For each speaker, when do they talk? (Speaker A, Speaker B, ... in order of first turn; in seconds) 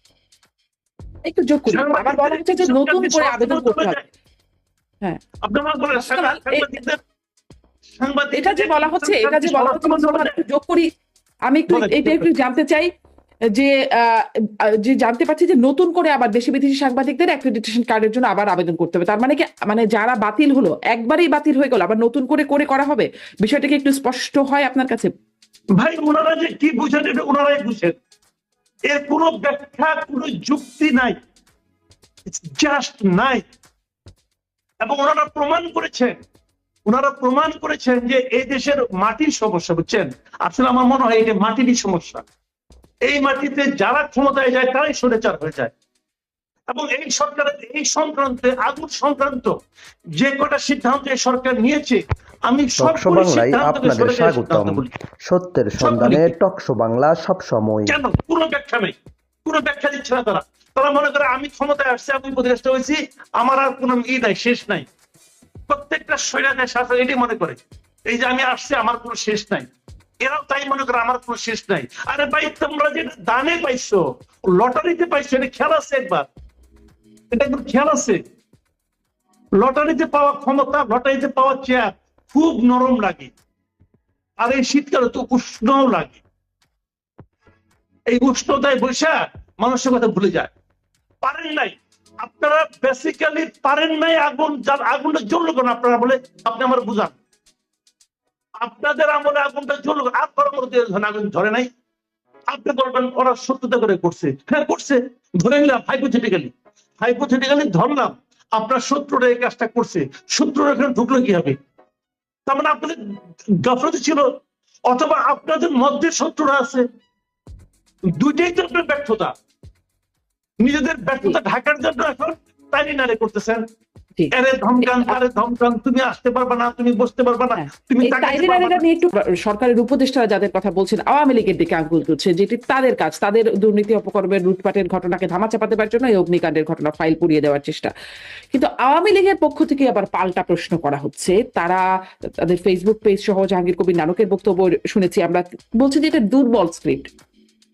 Speaker A: 1.2-4.0, 5.9-6.8, 8.3-10.9, 11.5-12.9, 13.6-14.2, 14.8-25.1, 124.2-125.2, 127.5-137.9, 138.5-141.8, 142.4-147.1
Speaker B: 1.7-4.0, 5.4-7.0, 8.0-10.3, 11.7-12.3, 25.8-27.9, 28.9-31.1, 32.3-33.4, 34.8-36.1, 36.9-42.2, 43.1-45.7, 46.7-49.5, 50.2-54.9, 55.8-56.3, 57.9-64.8, 65.7-69.7, 70.2-76.3, 77.3-78.2, 79.6-83.3, 84.4-86.2, 88.1-90.5, 91.2-97.2, 98.6-101.7, 102.5-111.6, 112.5-113.0, 113.6-114.2, 114.9-116.8, 118.2-119.3, 120.6-123.6, 124.3-128.8
Speaker C: 52.8-57.9